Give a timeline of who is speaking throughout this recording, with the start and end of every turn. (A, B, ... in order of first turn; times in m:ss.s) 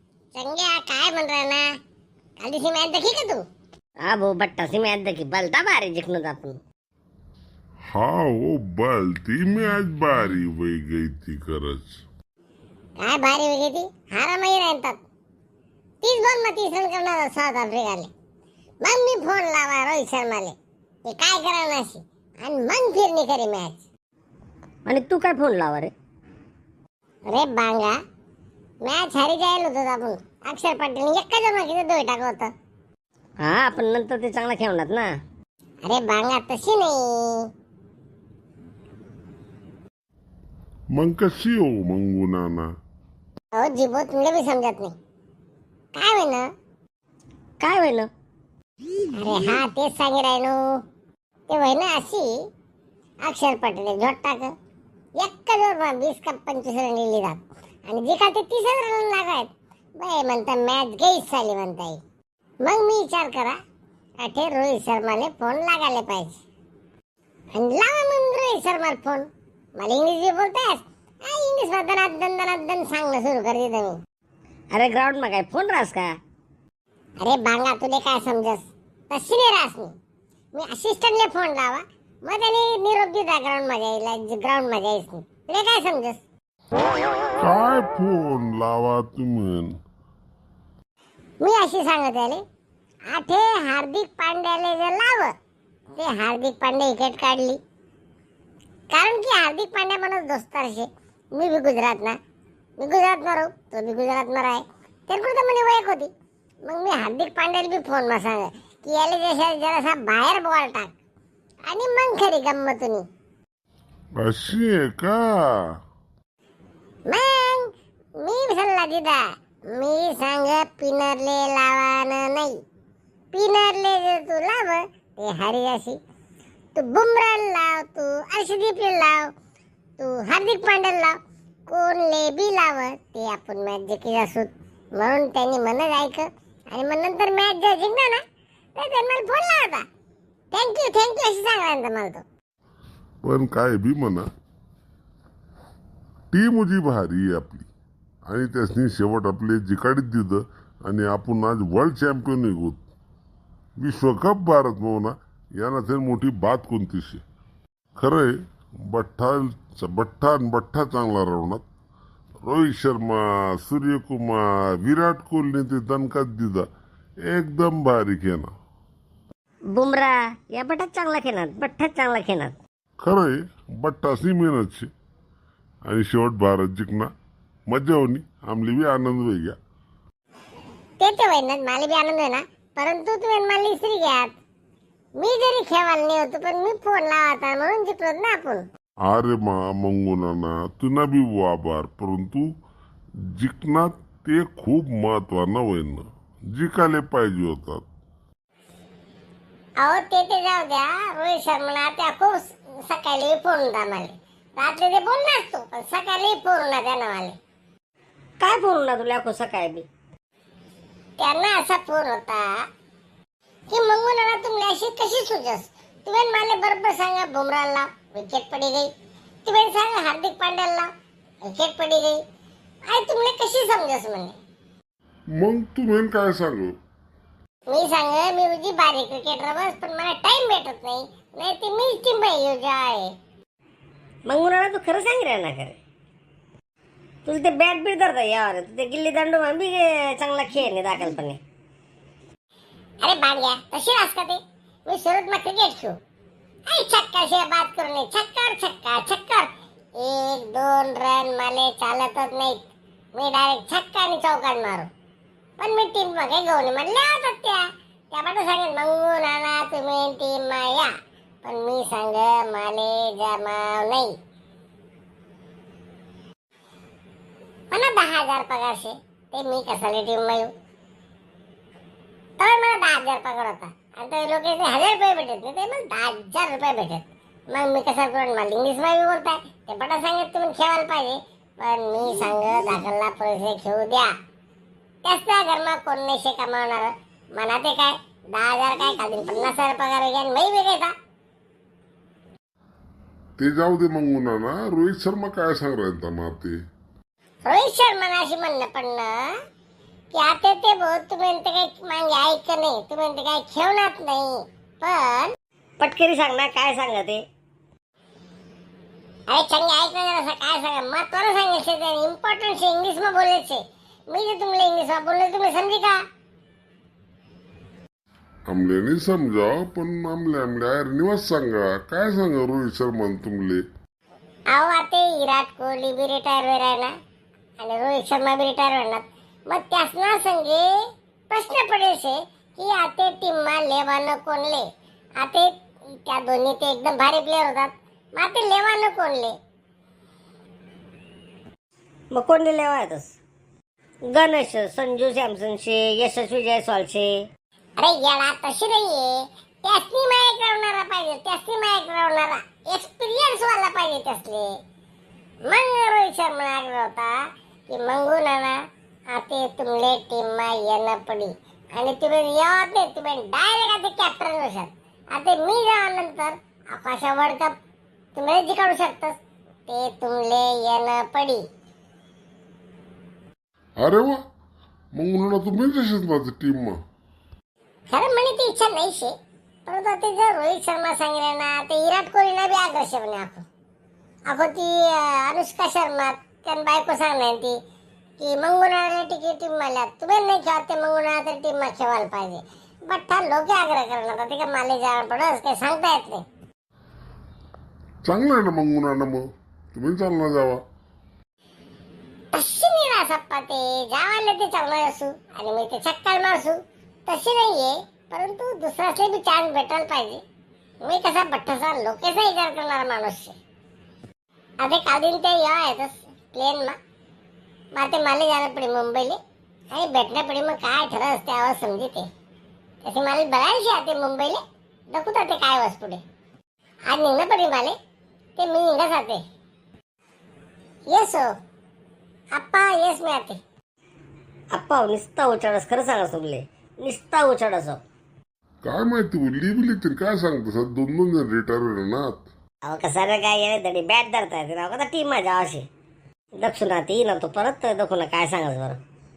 0:00.3-0:01.7 A
0:02.4-0:03.4 A
0:04.0-0:06.6 B
0:07.9-0:12.0 C
0:13.0-0:15.0 A
0:16.0-0:18.1 A
0:18.8-0:23.8 A
0:24.9-0:25.9 B
0:27.3-0:28.0 A
0:28.8-0:32.5 A
0:33.4-0:35.1 B
0:35.8-0:37.5 A
0:40.9-0:42.7 C
0:43.5-0:45.0 A
0:46.0-0:46.5 A
0:47.6-0:48.1 B
0:49.1-0:50.8 A
0:51.5-0:52.4 A
0:53.2-0:54.6 A
0:55.2-1:02.0 A
1:02.6-1:03.6 A
1:04.2-1:06.4 A
1:07.5-1:14.0 A
1:14.7-1:16.2 B
1:17.2-1:20.0 A
1:20.5-1:26.2 A
1:27.4-1:29.8 C
1:31.4-1:32.4 A
1:33.1-1:35.3 A
1:35.9-1:37.6 A
1:38.9-1:42.2 A
1:42.8-1:46.1 A
1:46.6-1:50.9 A
1:51.7-1:53.1 A
1:54.2-1:55.8 C
1:57.1-2:02.6 A
2:03.3-2:06.0 A
2:06.8-2:09.3 A
2:10.0-2:11.2 A
2:11.7-2:18.2 A
2:18.8-2:19.9 A
2:20.5-2:22.2 A
2:23.2-2:24.3 C
2:26.3-2:27.7 C
2:28.3-2:32.8 C
2:33.8-2:37.2 C
2:38.0-2:38.3 C
2:38.8-2:41.6 C
2:42.4-2:46.7 C
2:47.2-2:48.5 C
2:49.8-2:52.6 B
2:53.0-2:54.9 C
2:55.9-2:57.1 C
2:57.7-2:59.6 C
3:01.0-3:04.3 A
3:05.2-3:08.7 A
3:09.1-3:12.5 C
3:13.4-3:17.8 C
3:19.8-3:27.4 A
3:28.4-3:29.9 B
3:31.2-3:32.6 A
3:33.7-3:38.9 A
3:39.4-3:40.9 A
3:41.5-3:42.2 A
3:42.9-3:44.4 A
3:45.4-3:46.8 C
3:47.7-3:53.1 A
3:54.3-3:55.8 B
3:57.3-4:01.4 B
4:03.0-4:06.0 A
4:06.7-4:09.5 A
4:10.0-4:14.9 A
4:15.6-4:24.1 A
4:27.7-4:30.5 A
4:32.4-4:44.1 A
4:45.0-4:50.9 A
4:53.4-4:56.6 C
4:57.5-4:59.3 A
5:00.1-5:05.3 A
5:05.8-5:07.2 B
5:09.3-5:16.0 A
5:18.5-5:23.6 C
5:24.5-5:26.9 A
5:27.6-5:30.7 A
5:31.3-5:34.7 A
5:35.2-5:39.4 A
5:42.1-5:43.2 B
5:44.1-5:47.3 B
5:47.8-5:54.5 A
5:55.4-6:07.5 A
6:08.2-6:09.2 A
6:09.7-6:11.4 A
6:13.8-6:14.2 C
6:14.9-6:16.8 C
6:17.9-6:19.1 A
6:19.7-6:23.5 A
6:24.3-6:27.6 A
6:28.2-6:36.2 A
6:38.0-6:40.6 C
6:42.3-6:50.2 A
6:50.8-6:53.4 A
6:54.6-6:56.8 A
6:57.8-6:59.2 A
6:59.7-7:02.1 A
7:02.8-7:06.0 A
7:06.9-7:07.8 A
7:08.4-7:09.2 A
7:10.9-7:11.3 A
7:12.4-7:13.4 A
7:14.5-7:17.8 B
7:18.6-7:22.3 C
7:22.6-7:25.7 B
7:26.4-7:28.8 B